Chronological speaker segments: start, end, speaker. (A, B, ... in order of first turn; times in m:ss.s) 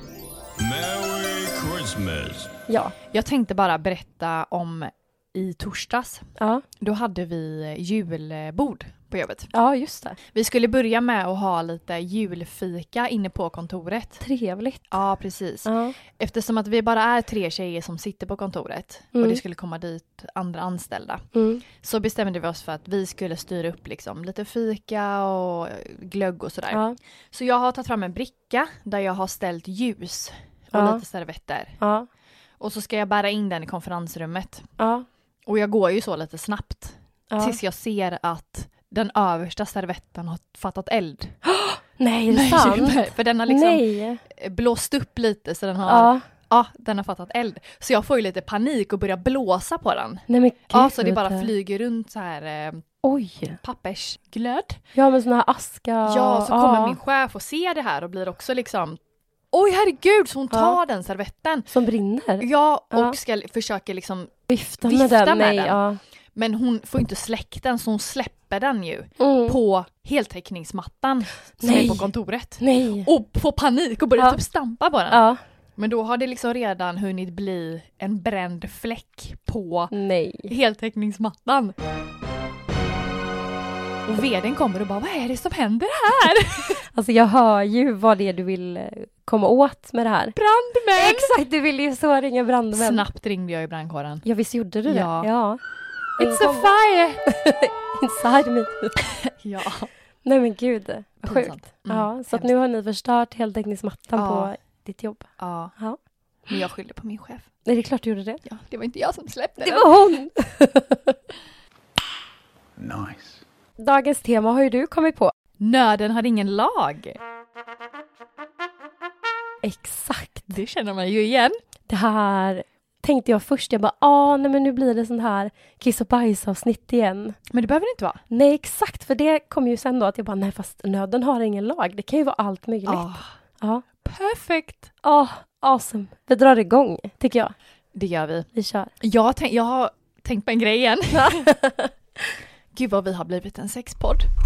0:00.6-0:02.5 A
0:02.7-0:02.9 B
0:03.1-0:06.3 C
0:06.4-0:06.6 B
0:06.8-0:09.5 C
0:09.5-0:10.2 B
0:10.3-0:14.2 C
0:14.2-0:14.9 B
0:14.9-0:31.8 C
0:15.6-0:16.0 B
0:19.1-0:19.4 B
0:21.3-0:21.6 B
0:30.7-0:31.0 B
0:31.8-0:32.1 B
0:32.6-0:34.7 C
0:34.8-0:35.0 B
0:35.4-0:41.4 C
0:37.3-0:37.6 B
0:41.4-0:44.2 B
0:42.3-0:52.8 C
0:45.8-0:46.2 B
0:50.3-0:51.5 B
0:53.0-0:53.6 B
0:53.6-0:54.8 C
0:54.9-0:57.0 B
0:56.0-0:59.0 C
0:59.5-1:01.7 C
1:00.5-1:00.8 B
1:01.7-1:03.2 B
1:02.4-1:05.8 C
1:04.5-1:06.0 B
1:06.3-1:15.2 C
1:09.2-1:09.6 B
1:11.6-1:12.1 B
1:12.6-1:13.1 B
1:15.1-1:15.4 B
1:15.8-1:19.9 C
1:19.9-1:20.5 B
1:20.5-1:21.7 C
1:24.0-1:26.8 C
1:26.9-1:30.4 B
1:30.4-1:31.3 C
1:31.0-1:33.0 B
1:32.7-1:34.2 C
1:34.2-1:35.6 B
1:34.9-1:35.3 C
1:36.2-1:37.2 C
1:36.2-1:36.7 B
1:37.3-1:39.0 B
1:39.2-1:39.9 C
1:40.2-1:46.0 B
1:41.2-1:42.5 C
1:44.2-1:44.5 C
1:45.4-1:45.7 C
1:46.5-1:47.5 C
1:47.6-1:48.4 B
1:48.4-1:49.9 C
1:49.6-1:51.2 B
1:52.8-1:53.4 A
1:53.8-1:55.3 B
1:55.6-1:57.2 C
1:59.6-2:00.5 B
2:00.5-2:01.6 C
2:01.9-2:07.4 B
2:07.5-2:08.2 C
2:08.3-2:13.1 B
2:12.8-2:13.3 C
2:14.0-2:14.9 C
2:15.0-2:17.5 B
2:17.9-2:18.5 C
2:18.5-2:18.9 B
2:19.0-2:21.5 C
2:21.1-2:22.3 B
2:22.7-2:24.3 C